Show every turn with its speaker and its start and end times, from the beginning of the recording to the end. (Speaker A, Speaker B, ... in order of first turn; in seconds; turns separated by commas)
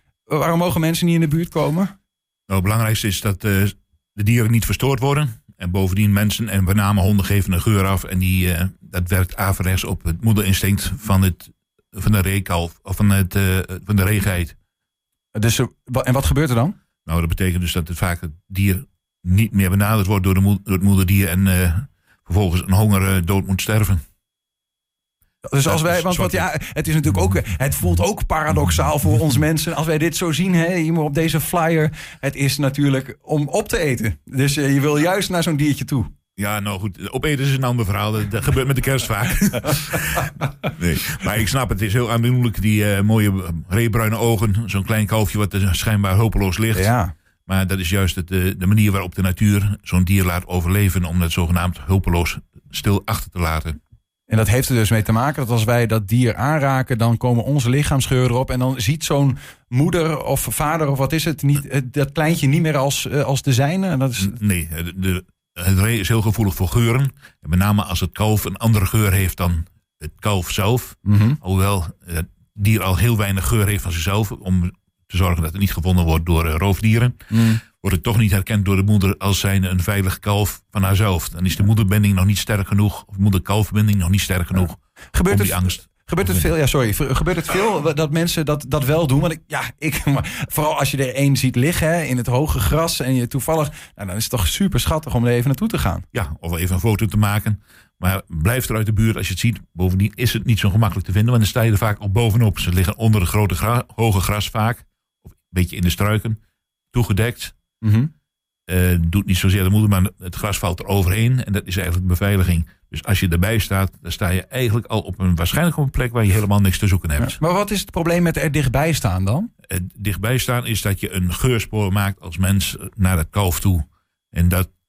Speaker A: 0.3-1.9, Speaker B: 2.5-14.6, Speaker A: 15.3-16.8, Speaker B: 17.1-24.0, Speaker A: 25.4-36.1, Speaker B: 25.7-26.5, Speaker B: 36.4-46.9, Speaker A: 46.8-47.1, Speaker B: 47.5-53.8, Speaker A: 54.3-64.4, Speaker B: 64.2-86.5, Speaker A: 71.1-71.4, Speaker A: 77.3-77.6, Speaker A: 85.1-96.1, Speaker B: 96.1-104.8, Speaker B: 105.5-106.4, Speaker B: 106.9-107.5, Speaker A: 107.8-108.1, Speaker B: 108.7-117.4, Speaker A: 117.2-119.5, Speaker B: 119.7-124.7